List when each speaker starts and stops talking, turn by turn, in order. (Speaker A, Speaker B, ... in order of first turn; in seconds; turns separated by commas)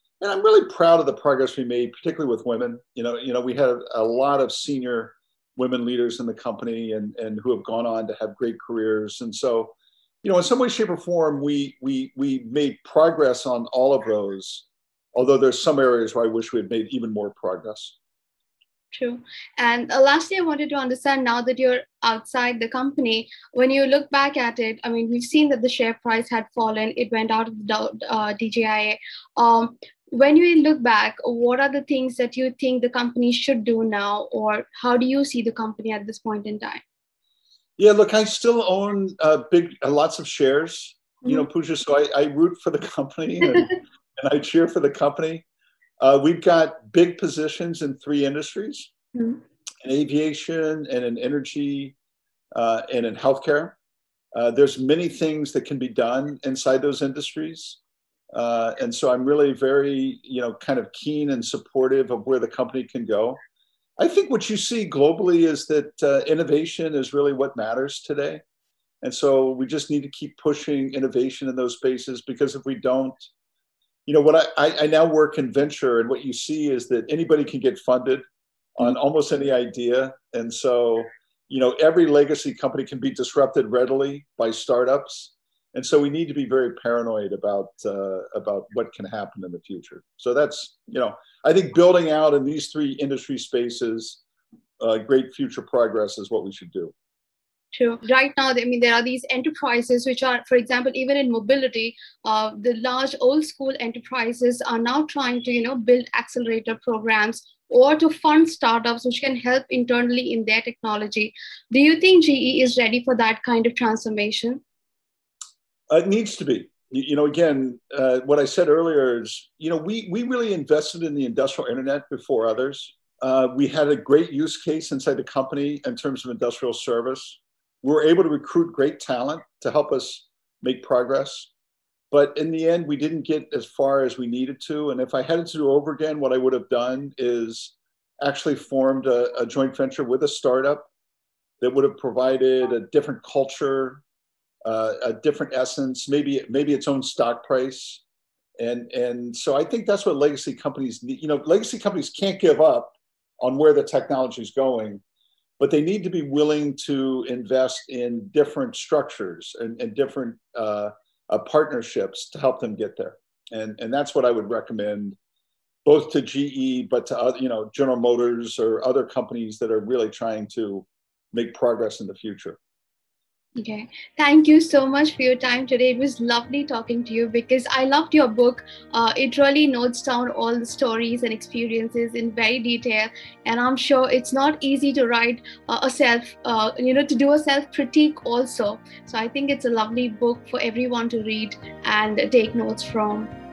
Speaker A: 0.2-17.9, Speaker B: 18.9-36.8, Speaker A: 37.8-45.5, Speaker A: 46.0-48.9, Speaker B: 49.1-49.4, Speaker A: 49.8-52.0, Speaker A: 52.5-53.8, Speaker A: 54.3-57.8, Speaker A: 58.3-63.4, Speaker A: 64.0-68.4, Speaker A: 69.0-73.3, Speaker A: 74.1-78.2, Speaker A: 78.8-94.2, Speaker A: 94.8-96.9, Speaker B: 97.7-114.6, Speaker A: 115.9-131.5, Speaker A: 132.1-140.9, Speaker A: 141.6-144.0, Speaker A: 144.6-148.0, Speaker A: 148.6-155.0, Speaker A: 155.6-165.2, Speaker A: 165.8-172.6, Speaker B: 173.6-193.3